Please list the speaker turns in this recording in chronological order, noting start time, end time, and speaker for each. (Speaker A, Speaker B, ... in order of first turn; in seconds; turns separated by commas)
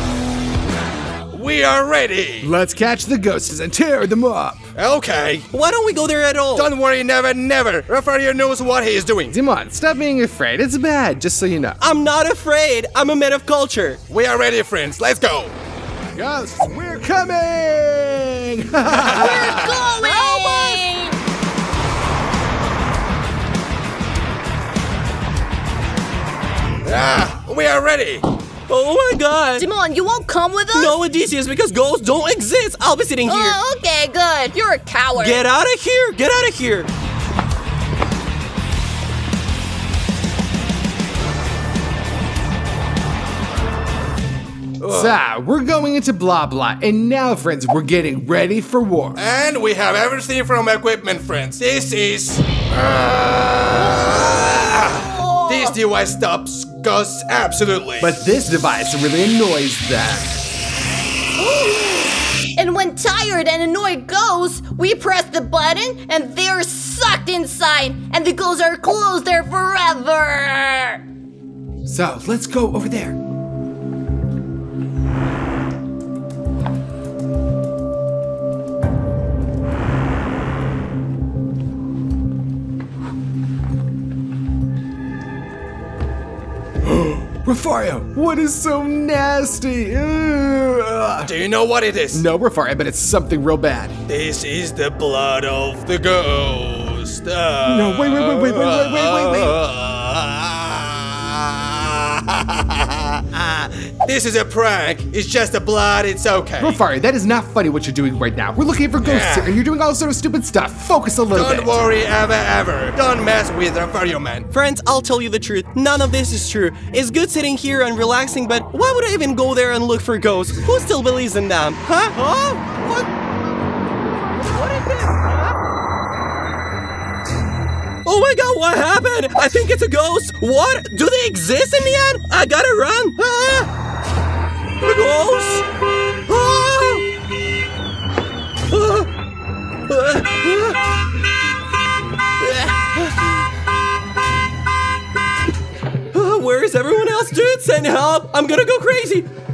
Speaker A: 1.3-2.5, Speaker B: 2.4-4.6, Speaker A: 4.7-5.5, Speaker C: 5.5-6.7, Speaker A: 6.5-9.3, Speaker B: 9.3-11.8, Speaker C: 11.8-14.0, Speaker A: 14.1-15.5, Speaker B: 16.1-20.0, Speaker A: 18.9-19.7, Speaker D: 19.1-21.2, Speaker C: 20.1-20.8, Speaker A: 26.8-28.2, Speaker C: 28.7-29.6, Speaker D: 29.6-30.9, Speaker C: 30.7-33.6, Speaker D: 33.2-35.4, Speaker C: 35.1-36.9, Speaker A: 44.8-45.1, Speaker B: 44.8-49.2, Speaker A: 49.1-58.1, Speaker D: 53.8-54.2, Speaker D: 54.8-55.7, Speaker B: 58.0-60.3, Speaker D: 61.4-71.0, Speaker B: 71.9-73.2, Speaker B: 86.8-91.3, Speaker A: 91.2-92.2, Speaker B: 92.1-94.0, Speaker A: 94.1-106.8, Speaker B: 97.6-99.6, Speaker B: 106.6-111.8, Speaker A: 109.0-109.5, Speaker A: 111.3-114.5, Speaker C: 114.5-123.1, Speaker C: 124.4-125.6, Speaker C: 128.0-133.7, Speaker C: 134.8-135.7, Speaker C: 136.3-137.1, Speaker C: 138.7-139.1, Speaker C: 139.9-140.8, Speaker C: 142.4-143.3, Speaker C: 146.1-149.3